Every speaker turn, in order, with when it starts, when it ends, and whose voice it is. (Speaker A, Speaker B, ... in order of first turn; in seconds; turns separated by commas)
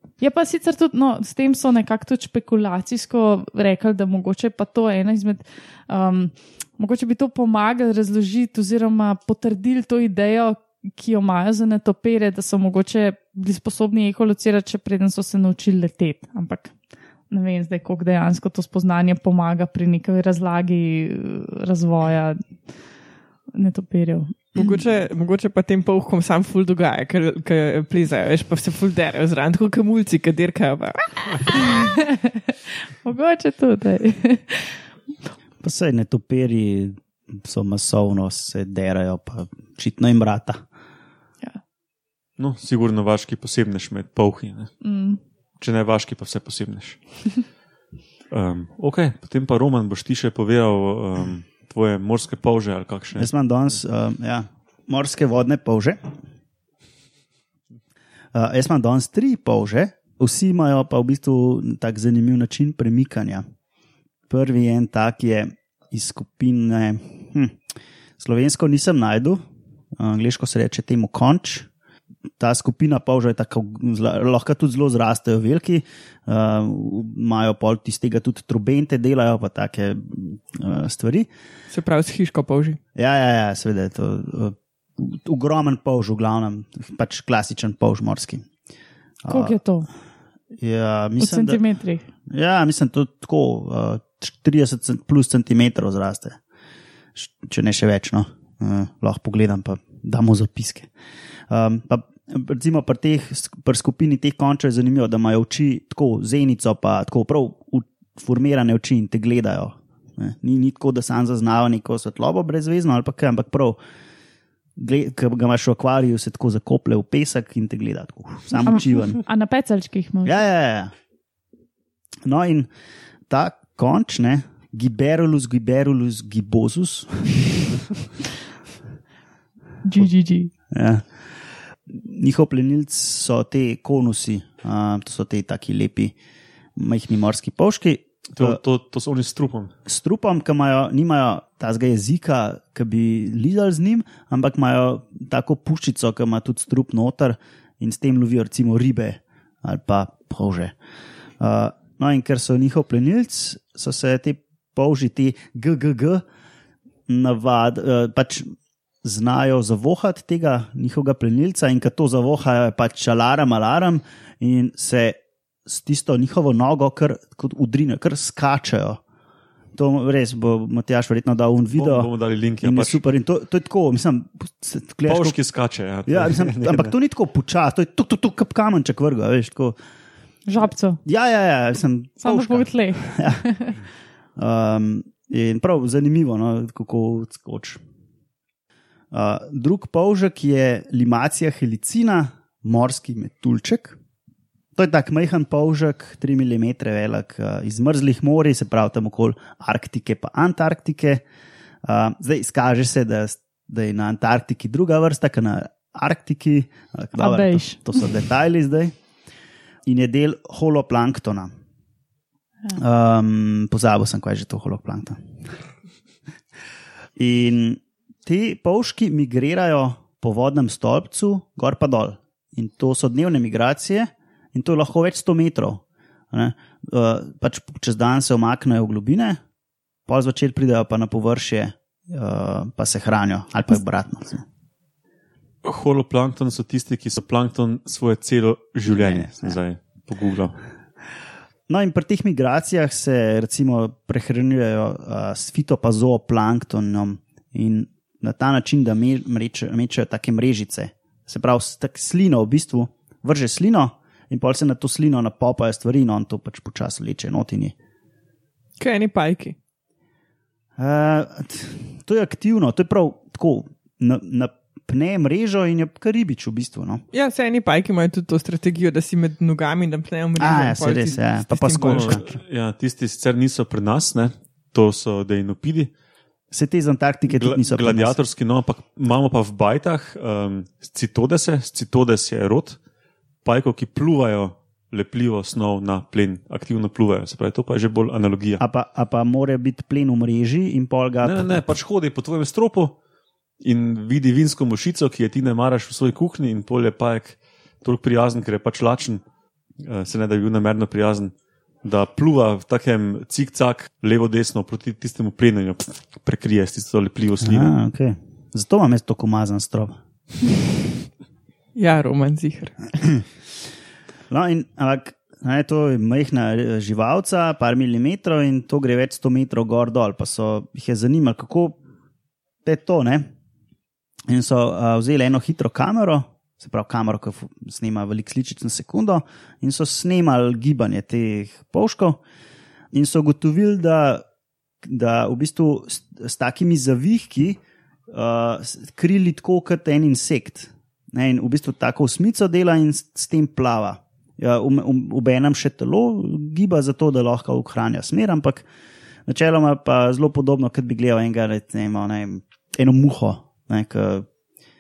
Speaker A: 0.2-16.7, Speaker A: 17.3-22.4, Speaker A: 23.5-24.8, Speaker B: 24.6-31.7, Speaker A: 31.5-34.8, Speaker C: 35.6-40.6, Speaker D: 42.4-44.7, Speaker A: 44.8-45.2, Speaker D: 45.6-47.0, Speaker D: 48.3-53.3, Speaker C: 53.2-56.0, Speaker C: 58.3-63.4, Speaker C: 64.3-67.6, Speaker C: 68.2-69.4, Speaker C: 70.0-71.7, Speaker C: 72.4-81.3, Speaker B: 81.7-82.8, Speaker C: 83.0-88.5, Speaker C: 89.2-89.6, Speaker A: 89.3-89.9, Speaker C: 90.6-91.6, Speaker A: 91.2-92.0, Speaker C: 92.3-96.4, Speaker C: 97.2-100.9, Speaker C: 101.5-113.8, Speaker C: 114.8-119.2, Speaker A: 118.6-120.4, Speaker C: 120.2-120.9, Speaker C: 122.2-122.7, Speaker C: 123.3-127.8, Speaker A: 129.8-130.5, Speaker C: 130.7-131.1, Speaker C: 131.9-136.2, Speaker C: 136.8-138.6, Speaker D: 138.3-139.7, Speaker C: 139.9-150.8, Speaker C: 151.4-156.2, Speaker C: 157.1-158.5, Speaker C: 159.0-169.0, Speaker C: 169.8-175.4, Speaker D: 171.7-173.0, Speaker D: 175.1-176.9, Speaker C: 176.1-179.8, Speaker A: 180.5-181.0, Speaker C: 181.0-183.4, Speaker A: 182.2-183.8, Speaker C: 184.4-187.8, Speaker C: 189.1-194.0, Speaker C: 194.8-201.2, Speaker C: 201.8-208.9, Speaker A: 207.2-207.8, Speaker C: 209.9-211.5, Speaker C: 212.7-215.2, Speaker C: 217.2-229.4, Speaker C: 230.1-234.4, Speaker D: 235.6-240.6, Speaker C: 238.9-239.6, Speaker C: 241.7-257.8, Speaker B: 258.8-259.6, Speaker C: 260.8-267.0, Speaker B: 267.1-272.2, Speaker C: 270.4-272.4, Speaker D: 271.8-275.9, Speaker C: 276.5-278.2, Speaker D: 277.3-282.8, Speaker D: 283.4-288.6, Speaker C: 288.6-291.7, Speaker D: 291.2-293.0, Speaker D: 293.6-299.2, Speaker D: 299.8-307.8, Speaker C: 307.4-310.0, Speaker B: 311.8-313.0, Speaker C: 314.3-321.8, Speaker C: 322.6-323.3, Speaker C: 324.3-332.2, Speaker C: 332.9-334.2, Speaker C: 334.8-348.6, Speaker C: 349.3-354.3